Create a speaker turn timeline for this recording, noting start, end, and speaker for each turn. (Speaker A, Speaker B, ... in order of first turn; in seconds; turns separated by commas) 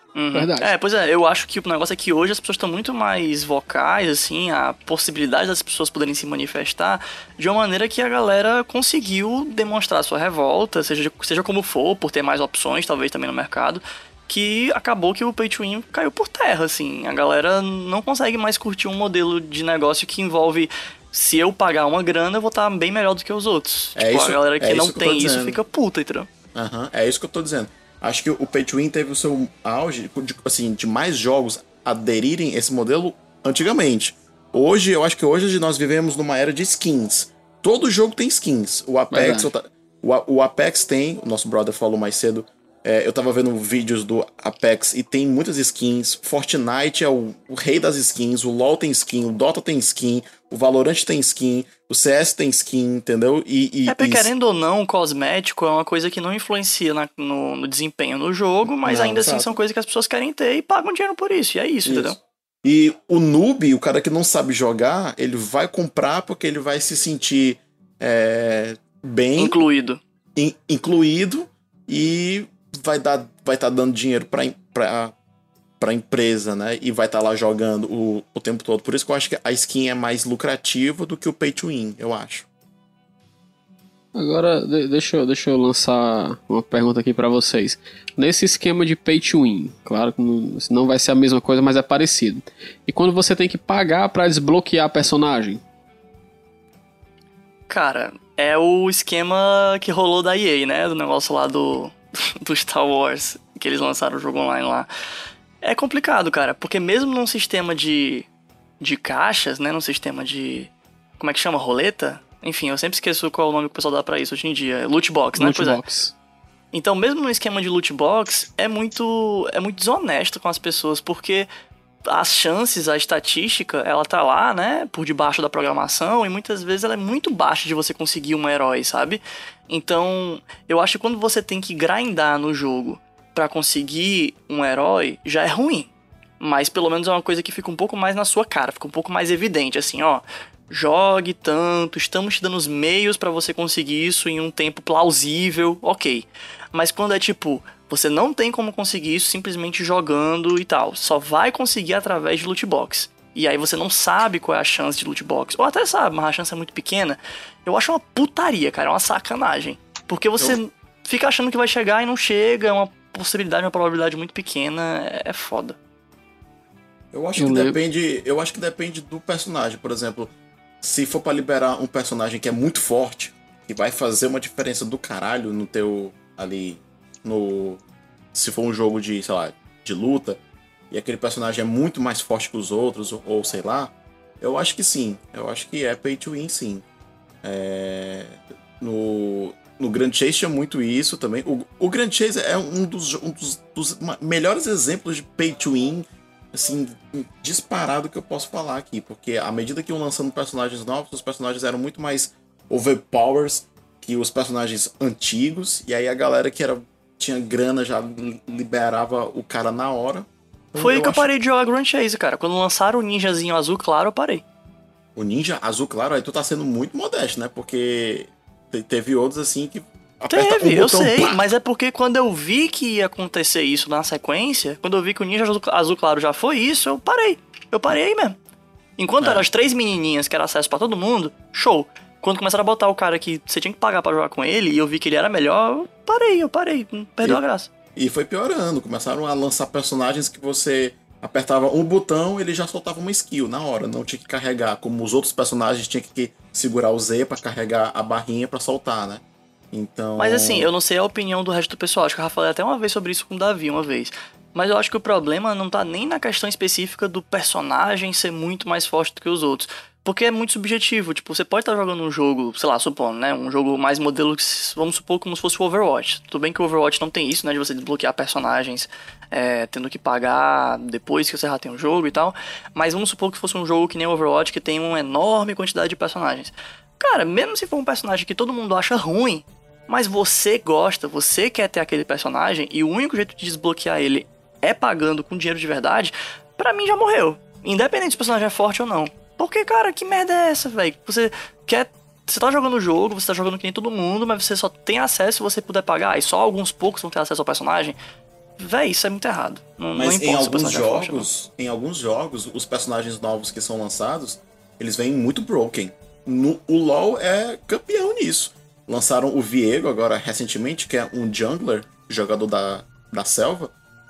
Speaker A: 0.1-26.3, Speaker B: 0.3-0.7, Speaker C: 23.9-25.6, Speaker C: 26.6-54.3, Speaker B: 39.1-39.5, Speaker A: 53.9-62.2, Speaker C: 58.9-59.6, Speaker C: 61.9-69.6, Speaker A: 69.4-70.0, Speaker C: 70.4-75.1, Speaker C: 75.8-82.5, Speaker B: 84.2-95.6, Speaker A: 97.7-104.9, Speaker A: 105.6-108.3, Speaker A: 108.8-115.8, Speaker B: 115.4-116.2, Speaker A: 116.7-121.5, Speaker A: 122.1-165.8, Speaker C: 167.1-170.3, Speaker B: 167.4-167.8, Speaker C: 170.8-177.8, Speaker C: 178.3-180.4, Speaker C: 180.9-186.8, Speaker C: 187.4-211.3, Speaker A: 210.8-214.4, Speaker C: 215.2-221.5, Speaker A: 220.3-228.4, Speaker A: 229.0-237.7, Speaker C: 229.2-229.5, Speaker C: 238.0-250.7, Speaker A: 250.2-298.0, Speaker A: 298.6-301.3, Speaker C: 300.0-313.7